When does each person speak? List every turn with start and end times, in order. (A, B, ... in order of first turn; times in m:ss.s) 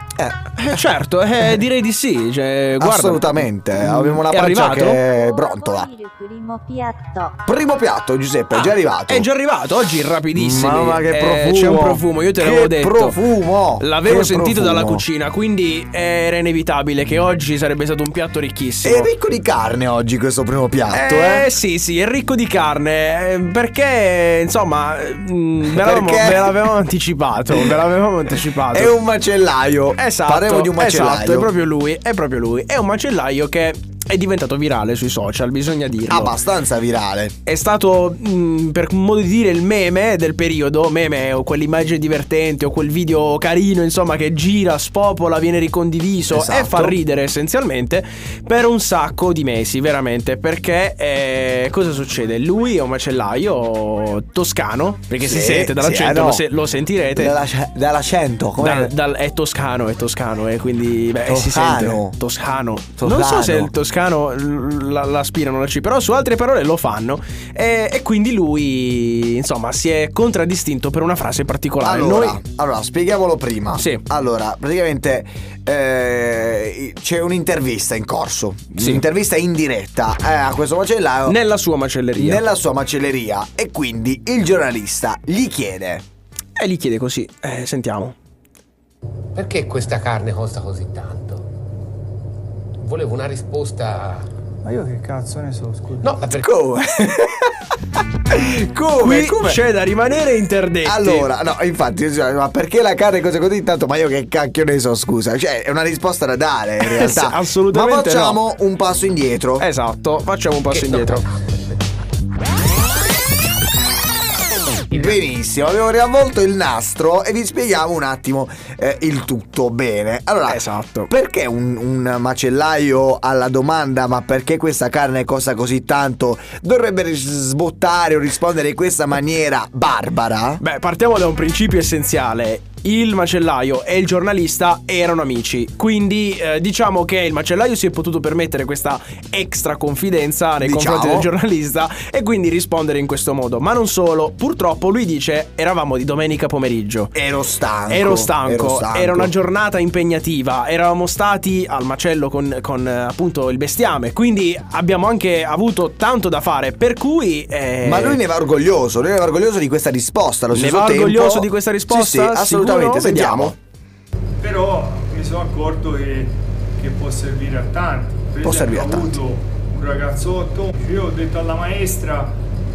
0:00.2-0:00.9 A
0:00.6-0:05.0 B
0:02.8-0:05.9 A
0:05.0-0:07.4 C
0:07.4-0:09.3 A
0:08.5-0:13.2 B
0:10.3-0:15.0 A
0:13.8-0:19.1 B
0:18.8-0:21.5 A
0:20.9-0:29.0 B
0:25.7-0:26.6 A
0:28.7-0:31.5 A
0:29.9-0:36.4 B
0:36.1-0:37.3 A
0:37.4-0:57.4 B
0:46.3-0:47.0 A
0:55.2-0:56.5 A
0:57.1-0:58.9 A
0:58.6-1:12.4 B
1:01.3-1:02.2 A
1:03.0-1:03.7 A
1:11.8-1:21.4 A
1:13.8-1:14.0 B
1:18.7-1:19.0 B
1:21.2-1:22.4 B
1:22.1-1:26.0 A
1:26.6-1:28.1 B
1:29.3-1:31.4 D
1:32.8-1:34.3 D
1:34.6-1:36.1 E
1:36.0-1:36.5 D
1:36.4-1:37.7 A
1:38.3-1:39.6 A
1:38.3-1:41.3 B
1:40.8-1:49.7 A
1:46.8-1:48.4 B
1:49.6-1:51.2 B
1:50.7-1:51.8 D
1:54.9-2:10.6 A
2:00.5-2:01.1 B
2:10.6-2:27.2 B
2:20.6-2:21.3 A
2:27.1-2:29.3 A
2:27.9-2:38.2 B
2:37.8-2:43.6 A
2:40.5-2:43.5 B
2:44.4-2:52.4 E
2:48.4-2:49.2 A